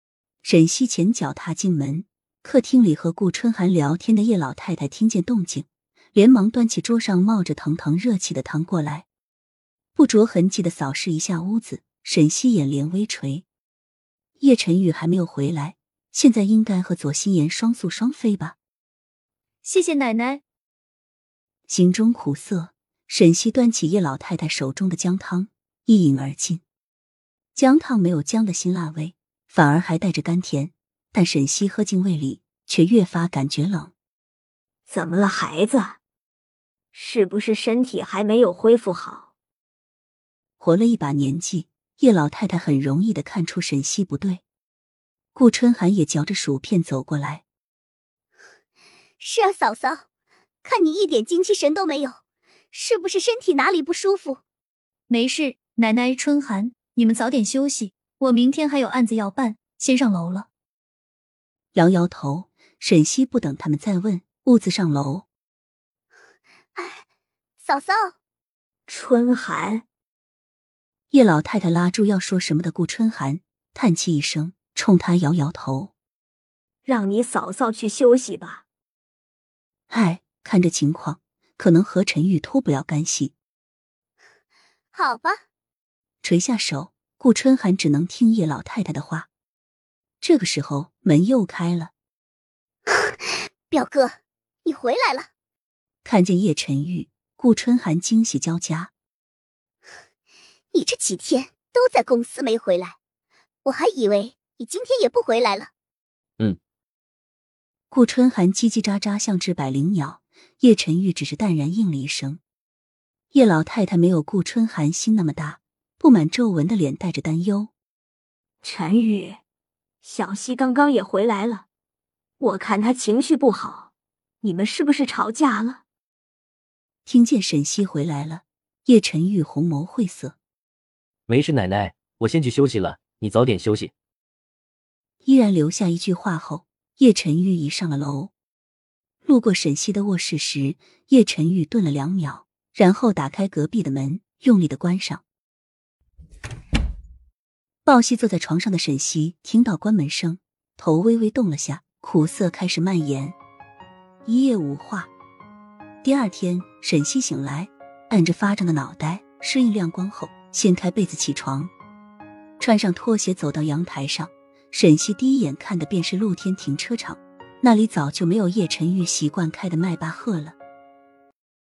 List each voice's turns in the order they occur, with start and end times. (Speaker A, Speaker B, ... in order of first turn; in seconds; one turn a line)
Speaker A: 0.4-9.1
Speaker A: 10.0-13.4
Speaker A: 14.4-18.6
Speaker B: 19.6-20.4
Speaker A: 21.7-26.6
Speaker A: 27.6-33.9
Speaker C: 34.9-36.0
Speaker C: 36.9-39.3
Speaker A: 40.6-44.4
Speaker A: 45.4-47.4
Speaker D: 49.2-50.0
Speaker D: 50.6-52.2
Speaker D: 52.7-54.4
Speaker B: 55.1-60.5
Speaker A: 61.7-65.3
Speaker D: 66.8-67.0
Speaker D: 67.6-68.1
Speaker C: 68.9-69.8
Speaker A: 71.1-75.9
Speaker C: 76.8-78.6
Speaker A: 79.9-83.3
Speaker D: 84.9-85.4
Speaker A: 86.2-89.3
Speaker A: 90.2-91.9
Speaker D: 92.9-95.3
Speaker A: 96.0-98.9
Speaker D: 100.7-103.0
Speaker D: 103.6-105.7
Speaker A: 107.9-112.4
Speaker A: 113.3-117.7
Speaker C: 118.6-119.4
Speaker C: 120.0-121.6
Speaker C: 122.4-123.9
Speaker C: 124.4-125.8
Speaker A: 127.1-130.4
Speaker E: 131.3-133.9
Speaker A: 135.2-138.3
Speaker A: 139.2-145.2
Speaker A: 147.8-153.3
Speaker A: 154.3-155.1
Speaker A: 156.0-161.7
Speaker A: 162.6-170.6